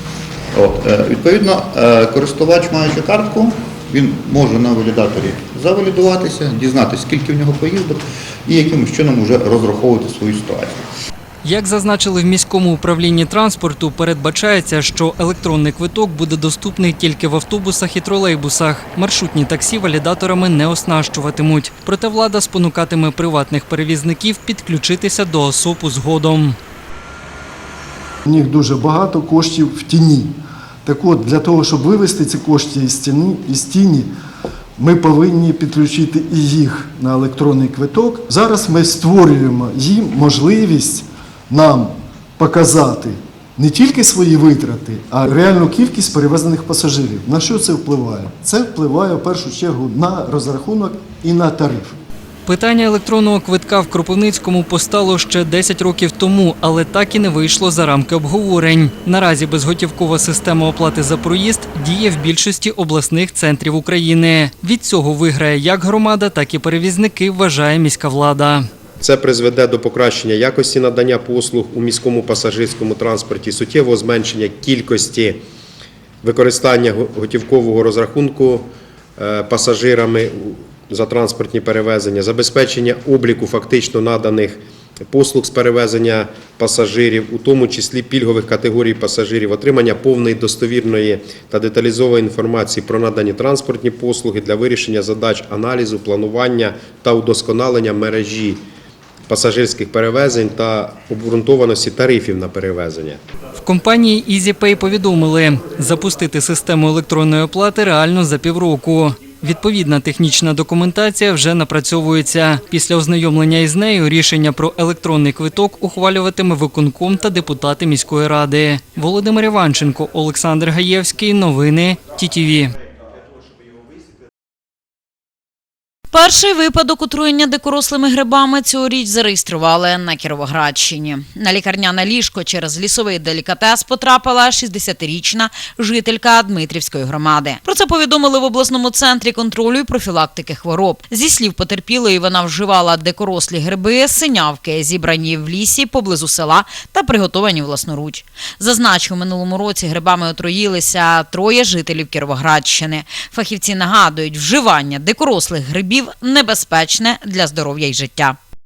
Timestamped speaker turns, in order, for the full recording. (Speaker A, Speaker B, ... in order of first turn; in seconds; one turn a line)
Speaker A: 0.5-10.8
Speaker B: 11.4-26.6
Speaker C: 28.2-34.1
Speaker C: 34.8-52.0
Speaker B: 52.5-68.7
Speaker D: 69.0-75.4
Speaker D: 76.2-98.6
Speaker D: 99.3-103.2
Speaker B: 103.6-122.7
Speaker E: 126.1-158.3